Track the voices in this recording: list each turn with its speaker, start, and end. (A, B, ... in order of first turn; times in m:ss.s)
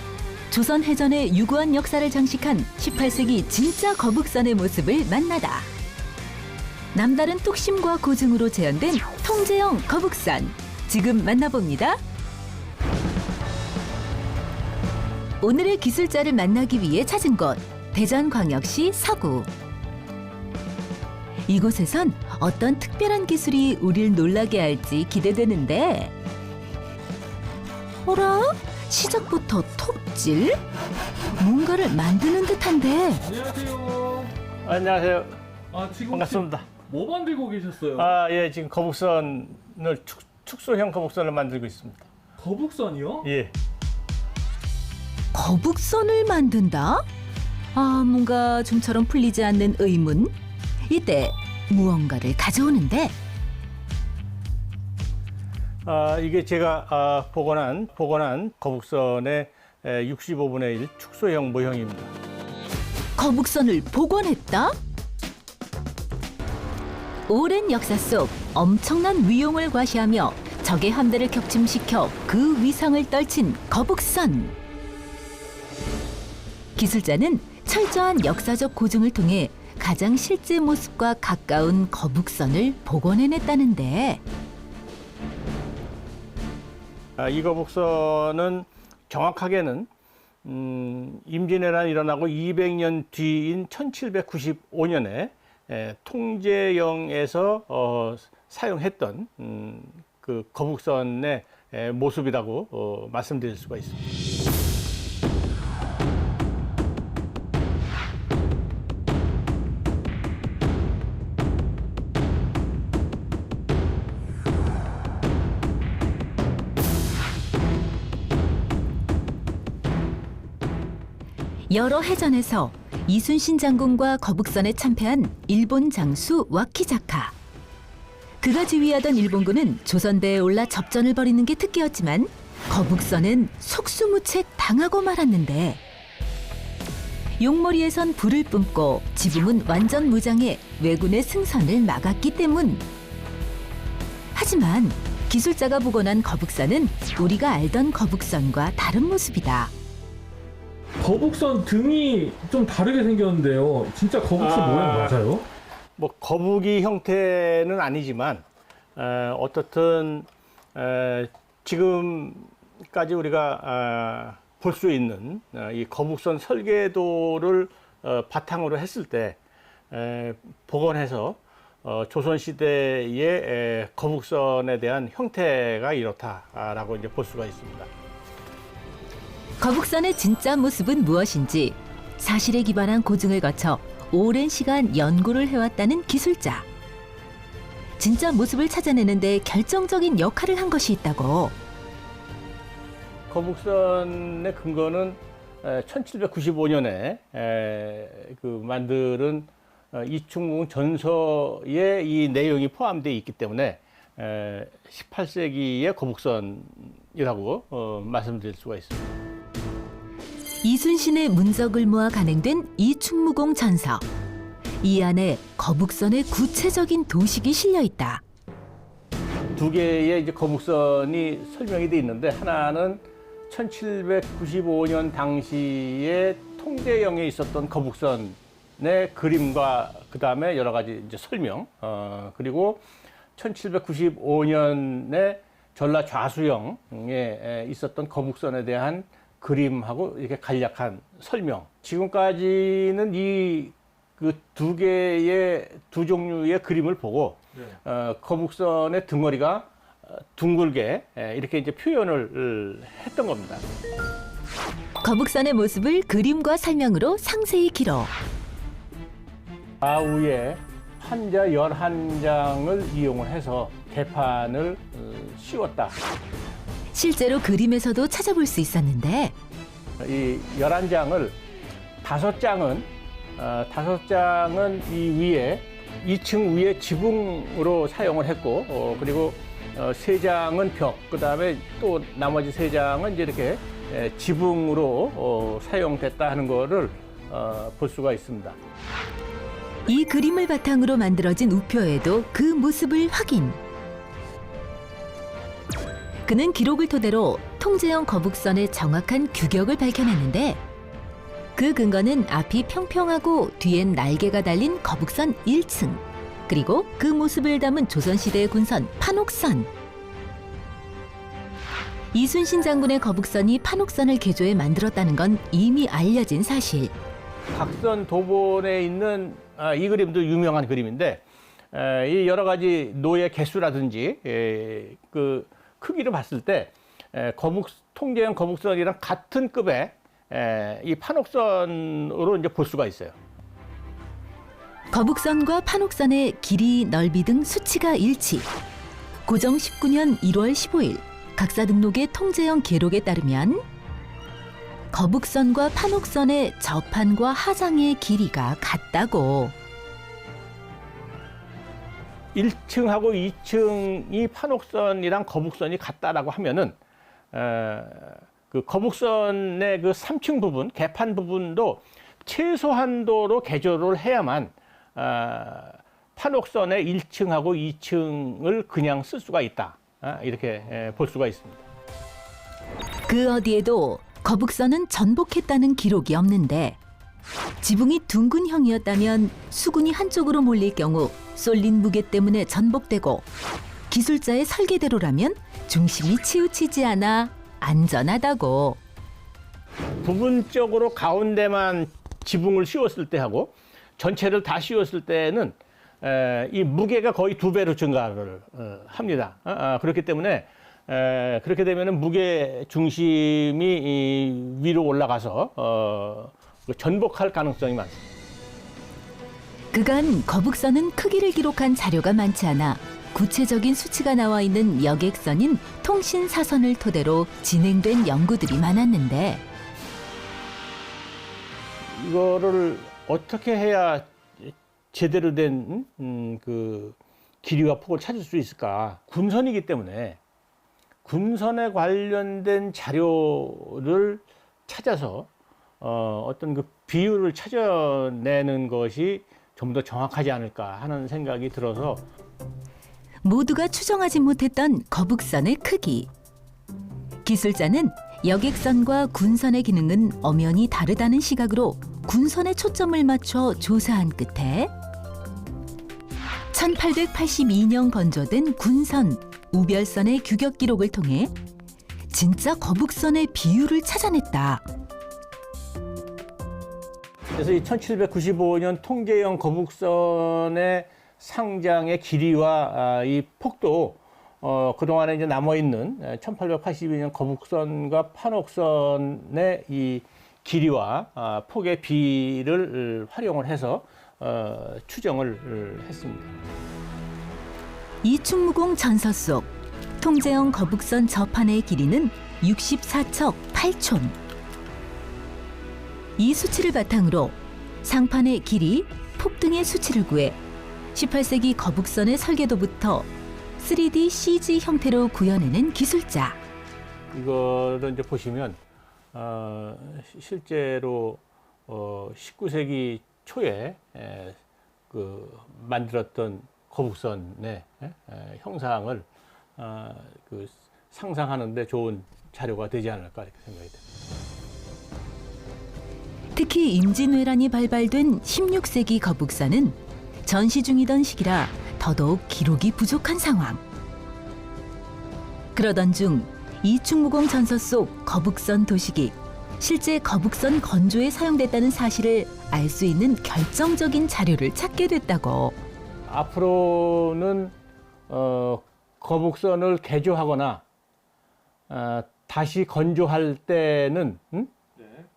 0:00.5-0:05.7 A
0:06.9-0:12.0 A
0:15.4-0:19.5 A
0:21.5-0:26.1 A
0:28.0-0:30.6 A
0:31.4-0:33.2 A
0:33.2-0:34.3 B
0:34.6-0:35.4 C
0:35.7-0:38.1 B
0:36.1-0:36.7 C
0:37.9-0:42.1 C
0:42.4-0:43.3 B
0:43.2-0:43.5 C
0:45.3-0:47.0 A
0:47.7-0:50.3 A
0:50.8-0:53.2 A
0:55.8-1:02.1 C
1:03.2-1:04.8 A
1:07.3-1:14.5 A
1:16.8-1:24.2 A
1:27.2-1:29.9 C
1:30.4-1:44.0 C
2:01.7-2:07.3 A
2:08.4-2:15.8 A
2:17.4-2:22.8 A
2:24.3-2:29.7 A
2:31.0-2:35.4 B
2:34.4-2:35.3 C
2:36.0-2:38.4 C
2:39.0-2:49.4 C
2:49.9-2:57.9 C
2:59.6-3:06.6 A
3:08.0-3:11.6 A
3:13.3-3:29.0 C
3:30.6-3:34.0 A
3:34.8-3:38.2 A
3:39.5-3:52.8 C
3:53.4-4:13.6 C
4:15.0-4:18.1 A
4:19.8-4:26.0 C
4:26.9-4:29.3 A
4:30.0-4:31.4 C
4:32.0-4:48.6 C
4:49.9-4:53.6 A
4:56.2-5:00.6 A
5:01.5-5:09.7 A
5:12.1-5:16.9 A
5:17.5-5:33.2 C
5:34.9-5:38.5 A
5:39.2-5:43.6 A
5:44.9-5:49.5 A
5:52.3-5:56.8 C
5:57.3-6:11.6 C
6:13.1-6:16.8 A
6:17.6-6:23.2 A
6:23.9-6:28.8 A
6:30.0-6:48.0 C
6:49.7-6:59.4 A
7:01.8-7:10.2 C
7:11.0-7:15.3 C
7:15.8-7:22.0 C
7:23.2-7:26.1 A
7:27.2-7:34.7 A
7:36.5-7:41.3 A
7:42.1-7:44.6 A
7:47.3-8:06.4 C
8:08.0-8:14.1 A
8:16.2-8:20.4 A
8:20.9-8:26.4 A
8:27.1-8:28.6 C
8:29.1-8:43.8 C
8:46.3-8:53.6 A
8:55.5-9:05.6 A
9:06.1-9:07.5 C
9:08.1-9:10.6 C
9:11.7-9:14.5 C